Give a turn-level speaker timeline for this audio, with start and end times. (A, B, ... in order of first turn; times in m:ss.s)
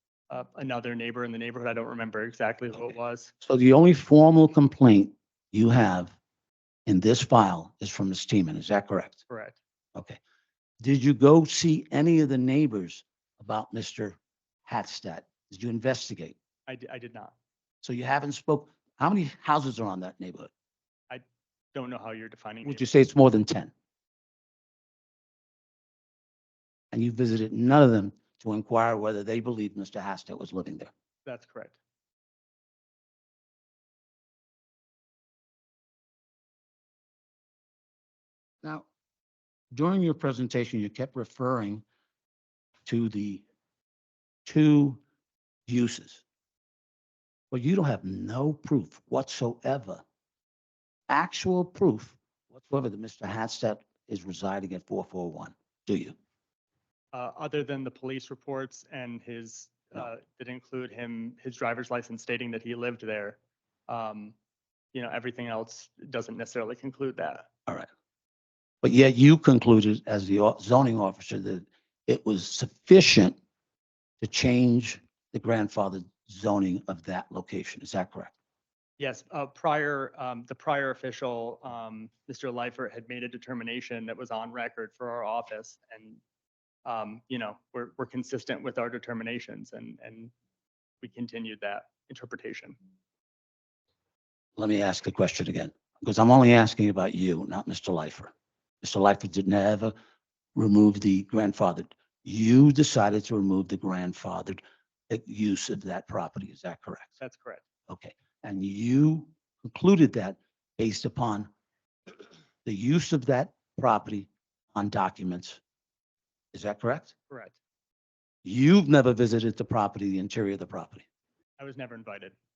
0:00.3-0:03.3 A
0:03.4-0:06.1 B
0:06.8-0:09.2 B
0:09.3-0:09.6 A
0:10.8-0:16.3 B
0:16.7-0:17.3 A
0:17.8-0:20.5 B
0:21.7-0:22.9 A
0:22.6-0:23.7 B
0:26.9-0:30.9 B
0:31.2-0:31.8 A
0:39.7-0:41.8 B
0:42.8-0:43.4 B
0:44.4-0:45.0 B
0:45.7-0:46.2 B
0:47.5-0:50.0 B
0:51.1-0:56.2 B
0:57.1-1:04.3 A
1:04.9-1:07.4 A
1:08.8-1:13.4 B
1:14.2-1:18.3 B
1:19.0-1:26.2 A
1:26.8-1:30.3 A
1:31.0-1:32.8 A
1:34.6-1:39.9 B
1:40.6-1:47.1 B
1:47.2-1:47.6 A
1:47.9-1:51.5 B
1:52.6-1:55.6 B
1:56.5-1:57.1 B
1:57.3-1:57.6 A
1:58.4-2:01.0 B
2:01.6-2:02.3 A